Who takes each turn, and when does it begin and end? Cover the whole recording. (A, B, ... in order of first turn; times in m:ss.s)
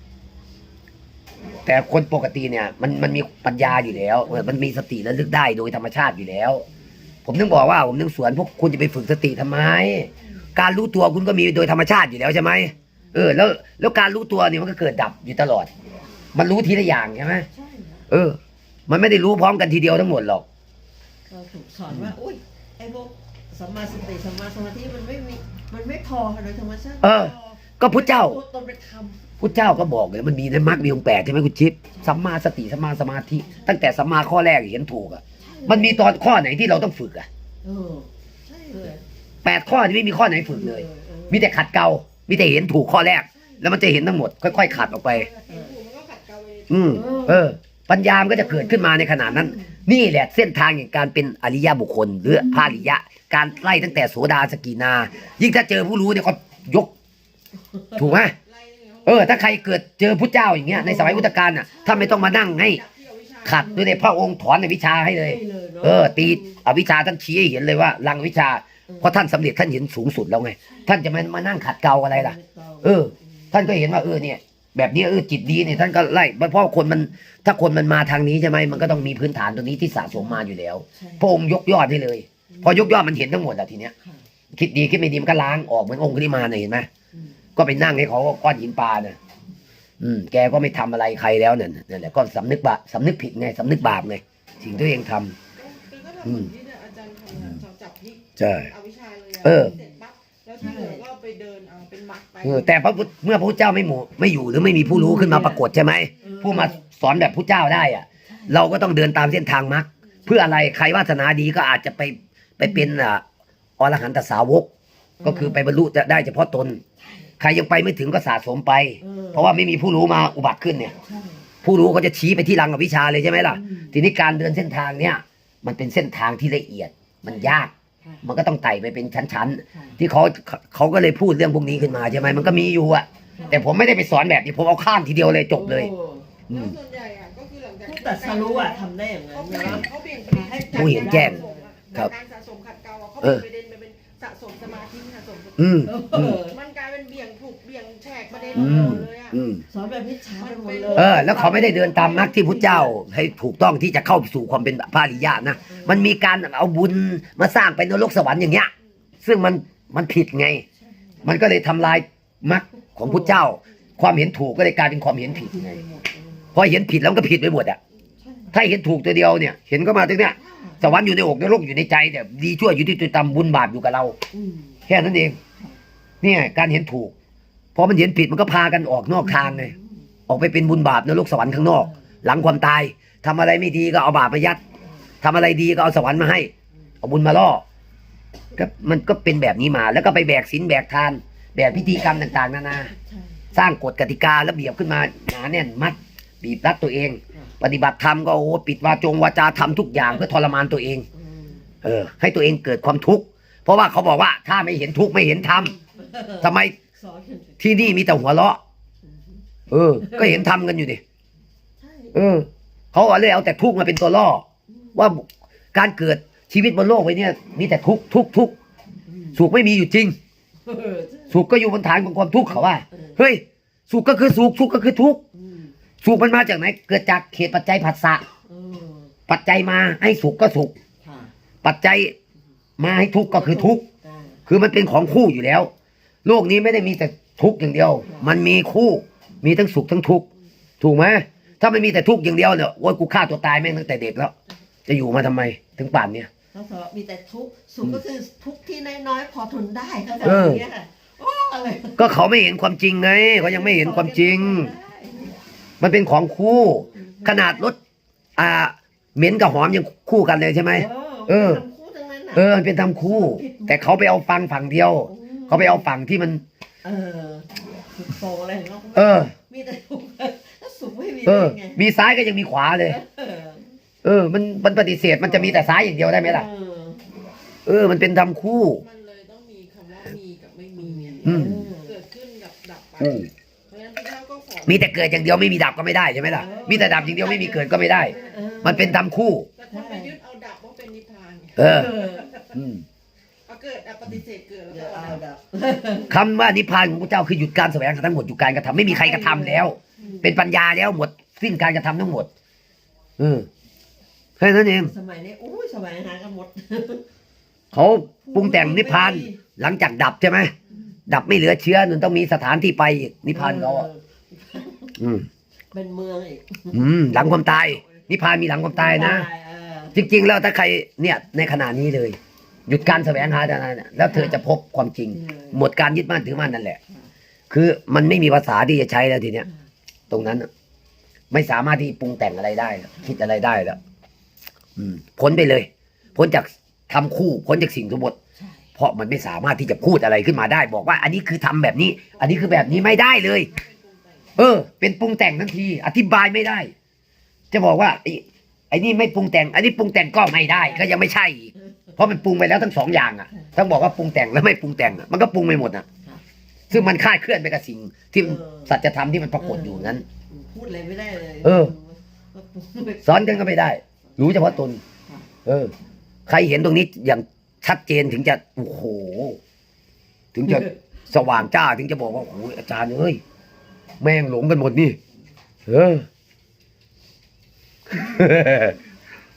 0:01.6-0:06.6 A
0:04.2-0:04.5 B
0:07.2-0:15.7 A
0:16.3-0:17.5 A
0:17.5-0:18.0 B
0:18.1-0:18.4 A
0:18.9-0:20.4 A
0:21.3-0:29.5 B
0:27.0-0:28.4 A
0:29.4-0:37.3 A
0:33.4-0:33.8 B
0:35.4-0:36.1 B
0:37.6-0:39.0 B
0:39.4-0:45.3 A
0:40.2-0:41.6 B
0:42.3-0:43.7 B
0:44.5-0:47.3 C
0:45.5-0:45.7 B
0:46.7-0:56.9 A
0:46.9-0:47.5 B
0:48.4-0:49.8 B
0:52.4-0:52.9 B
0:53.5-0:54.0 B
0:57.7-0:58.2 B
0:58.0-0:58.3 A
0:58.2-0:59.8 C
0:59.0-1:02.8 A
1:00.7-1:02.3 B
1:01.8-1:03.7 C
1:03.4-1:23.9 A
1:03.6-1:04.1 B
1:05.1-1:06.6 B
1:08.9-1:09.2 B
1:10.6-1:10.9 B
1:12.1-1:13.6 B
1:18.7-1:19.0 B
1:20.1-1:20.4 B
1:20.9-1:21.3 B
1:22.5-1:23.0 B
1:24.6-1:26.9 A
1:27.6-1:29.2 A
1:30.0-1:35.3 A
1:35.6-1:42.9 C
1:38.4-1:38.7 A
1:39.4-1:39.7 A
1:39.6-1:39.9 B
1:40.6-1:41.0 B
1:42.4-1:53.2 A
1:44.8-1:45.7 B
1:46.2-1:46.9 B
1:48.2-1:48.6 B
1:53.8-1:54.7 A
1:55.2-1:55.6 B
1:55.2-1:56.8 A
1:57.0-1:57.3 B
1:57.4-2:00.9 A
1:59.0-1:59.5 B
2:01.0-2:01.5 B
2:01.6-2:07.7 A
2:03.5-2:04.0 B
2:07.2-2:08.2 B
2:08.2-2:15.9 A
2:09.7-2:10.0 B
2:11.9-2:12.7 B
2:13.4-2:13.7 B
2:15.5-2:16.4 B
2:16.5-2:25.9 C
2:17.8-2:22.0 B
2:20.7-2:21.4 A
2:25.6-2:26.4 A
2:25.8-2:26.6 B
2:26.4-2:29.4 C
2:28.3-2:29.0 B
2:28.5-2:29.6 A
2:29.7-2:33.0 B
2:30.4-2:32.4 C
2:30.9-2:38.7 A
2:35.7-2:36.2 B
2:39.2-2:40.6 A
2:40.8-2:41.3 B
2:41.2-2:45.8 A
2:43.0-2:43.4 B
2:45.2-2:46.6 B
2:46.5-2:47.8 A
2:48.2-2:48.6 B
2:48.5-2:54.2 A
2:50.2-2:51.0 B
2:54.3-2:54.8 B
2:54.9-2:55.4 A
2:56.2-2:57.1 A
2:57.7-2:59.7 A
2:59.2-3:00.1 B
3:00.3-3:04.6 A
3:01.8-3:02.1 B
3:05.2-3:06.5 A
3:07.0-3:07.6 A
3:08.5-3:12.9 A
3:11.8-3:12.2 B
3:12.9-3:13.5 B
3:13.5-3:21.0 A
3:21.1-3:21.7 B
3:21.8-3:25.7 A
3:25.3-3:27.8 B
3:26.4-3:26.7 A
3:27.6-3:28.6 A
3:29.0-3:29.4 B
3:29.7-3:31.0 A
3:30.0-3:30.5 B
3:31.8-3:32.2 B
3:32.1-3:34.4 A
3:34.7-3:35.0 B
3:34.9-3:38.5 A
3:39.1-3:39.4 B
3:39.3-3:40.1 A
3:40.6-3:41.4 B
3:41.3-3:45.2 A
3:42.9-3:43.2 B
3:45.3-3:45.7 B
3:46.0-3:48.2 A
3:48.5-3:49.1 B
3:49.3-3:50.7 A
3:51.0-3:51.3 B
3:51.6-3:52.1 A
3:52.8-3:53.8 A
3:53.3-3:54.4 B
3:54.5-3:55.7 A
3:56.2-4:00.3 A
3:58.0-3:58.3 B
4:00.8-4:04.3 A
4:04.8-4:06.3 A
4:06.5-4:12.2 B
4:10.2-4:10.6 A
4:12.0-4:14.7 A
4:13.3-4:15.4 B
4:15.8-4:17.8 A
4:16.9-4:17.7 B
4:18.4-4:21.6 A
4:20.7-4:23.8 B
4:22.3-4:26.4 A
4:25.0-4:25.9 B
4:26.8-4:31.8 B
4:28.9-4:29.3 A
4:31.2-4:33.0 A
4:32.8-4:33.7 B
4:34.0-4:36.5 A
4:35.2-4:37.1 B
4:37.6-4:38.8 A
4:38.3-4:45.5 C
4:40.8-4:42.0 B
4:41.2-4:41.6 A
4:43.0-4:43.3 A
4:44.6-4:48.1 A
4:46.2-4:47.1 B
4:46.3-4:48.9 C
4:48.1-4:49.0 B
4:48.6-4:49.5 A
4:49.6-4:52.6 C
4:49.7-4:50.1 B
4:51.6-4:51.9 A
4:51.6-4:52.4 B
4:52.5-4:52.8 A
4:53.5-4:55.2 C
4:54.7-4:56.2 B
4:56.1-5:02.3 A
4:58.8-5:00.3 B
5:03.2-5:03.5 A
5:04.4-5:04.9 A
5:04.8-5:07.0 B
5:07.7-5:10.5 A
5:08.2-5:09.4 B
5:11.1-5:13.9 A
5:13.3-5:15.0 B
5:15.0-5:15.3 A
5:15.7-5:20.1 B
5:16.7-5:19.3 A
5:19.9-5:26.8 A
5:22.8-5:23.2 B
5:24.0-5:24.4 B
5:25.1-5:25.6 B
5:27.5-5:29.5 A
5:29.4-5:29.7 B
5:30.1-5:30.5 A
5:31.3-5:33.8 A
5:34.8-5:38.2 A
5:38.4-5:38.7 B
5:38.8-5:43.5 A
5:42.1-5:44.3 C
5:44.4-5:46.7 A
5:47.5-5:55.8 A
5:50.6-5:50.9 B
5:51.6-5:52.0 B
5:53.3-5:53.6 B
5:56.7-6:00.0 A
5:58.2-5:58.7 B
5:59.4-6:03.5 B
6:01.4-6:01.7 A
6:03.0-6:04.8 A
6:04.2-6:05.3 B
6:05.4-6:05.7 A
6:06.3-6:09.4 A
6:10.3-6:13.2 A
6:10.4-6:10.7 B
6:14.0-6:15.0 A
6:15.7-6:16.0 A
6:17.9-6:18.8 A